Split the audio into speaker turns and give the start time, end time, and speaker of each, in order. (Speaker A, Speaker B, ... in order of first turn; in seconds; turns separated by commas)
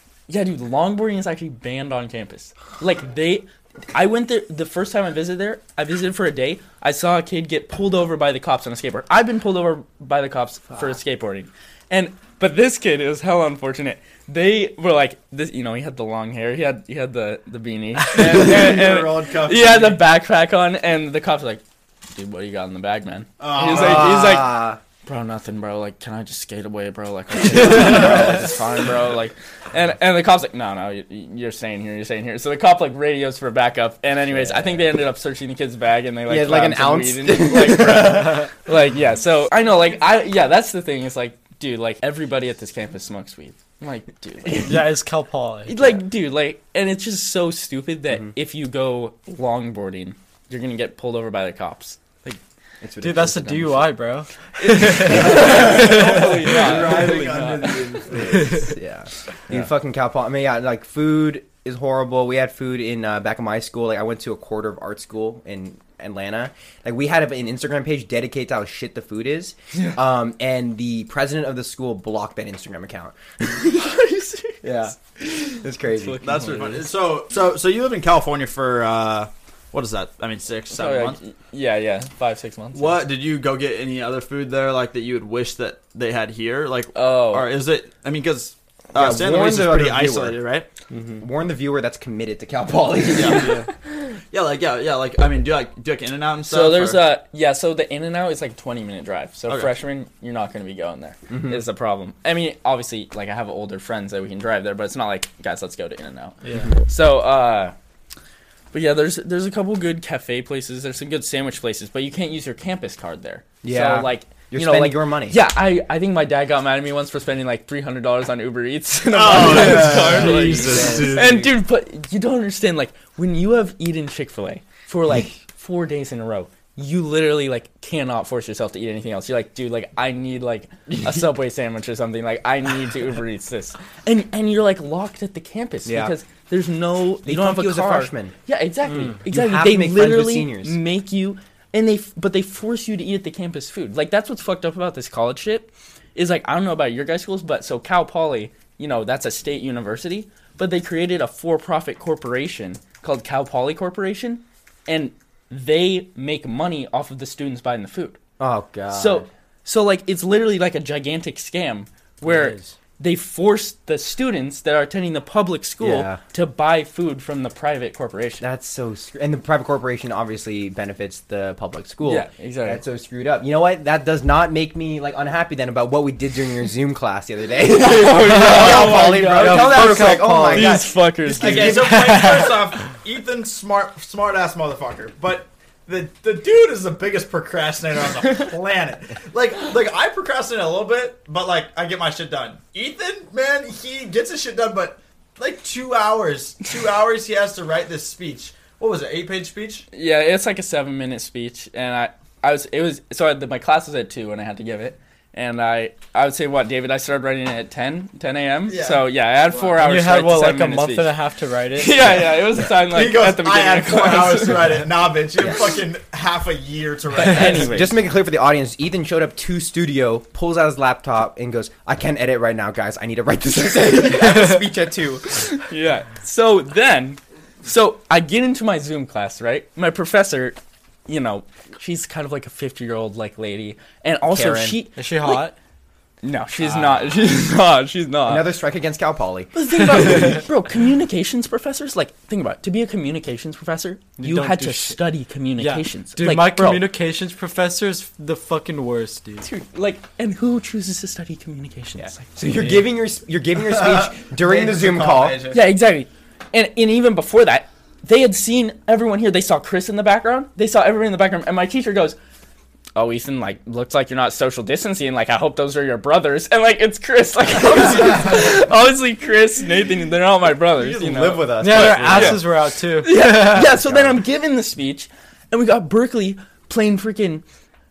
Speaker A: 0.3-44.8, Speaker B: 18.1-20.0, Speaker B: 23.4-24.4, Speaker C: 23.7-24.8, Speaker C: 27.6-28.6, Speaker B: 27.9-28.3, Speaker C: 34.3-34.9, Speaker C: 36.3-38.5, Speaker D: 44.6-45.8, Speaker A: 45.7-52.0, Speaker C: 52.2-53.9, Speaker D: 53.0-56.8, Speaker A: 54.6-58.1, Speaker B: 55.1-58.7, Speaker C: 55.1-55.6, Speaker C: 58.6-73.1, Speaker A: 73.5-74.7, Speaker C: 74.6-76.2, Speaker A: 76.0-76.9, Speaker B: 76.2-81.2, Speaker A: 80.7-83.0, Speaker B: 82.7-90.7, Speaker A: 86.9-87.5, Speaker C: 88.9-90.4, Speaker D: 90.9-91.2, Speaker C: 91.2-93.6, Speaker B: 93.1-93.5, Speaker B: 94.3-97.0, Speaker A: 96.5-107.7, Speaker C: 101.3-101.6, Speaker A: 108.7-158.2, Speaker C: 113.6-115.4, Speaker B: 119.1-121.4, Speaker C: 119.3-121.5, Speaker C: 135.8-136.1, Speaker C: 137.2-138.3, Speaker D: 138.9-139.2, Speaker C: 139.3-140.8, Speaker C: 158.4-159.3, Speaker A: 158.9-168.4, Speaker C: 162.2-162.5, Speaker C: 165.8-166.2, Speaker C: 168.4-182.1, Speaker A: 172.0-172.8, Speaker A: 177.7-182.0, Speaker D: 178.2-180.8, Speaker B: 178.6-179.2, Speaker B: 181.2-199.8, Speaker D: 181.4-182.8, Speaker A: 199.9-211.1, Speaker B: 208.7-209.0, Speaker D: 209.6-212.2, Speaker A: 211.8-214.8, Speaker B: 212.7-217.9, Speaker A: 217.1-217.9, Speaker C: 217.5-225.2, Speaker D: 224.2-224.6, Speaker A: 225.2-230.6, Speaker A: 231.1-235.5, Speaker C: 234.3-234.8, Speaker D: 235.0-235.5, Speaker A: 236.2-238.4, Speaker C: 238.3-240.3, Speaker A: 239.5-246.8, Speaker D: 244.2-245.0, Speaker D: 245.6-249.4, Speaker A: 249.4-252.2, Speaker C: 252.0-255.4, Speaker B: 253.6-255.6, Speaker A: 255.5-262.1, Speaker A: 262.9-272.4, Speaker C: 270.8-272.4, Speaker D: 271.6-273.8, Speaker A: 273.0-277.4, Speaker C: 273.6-274.1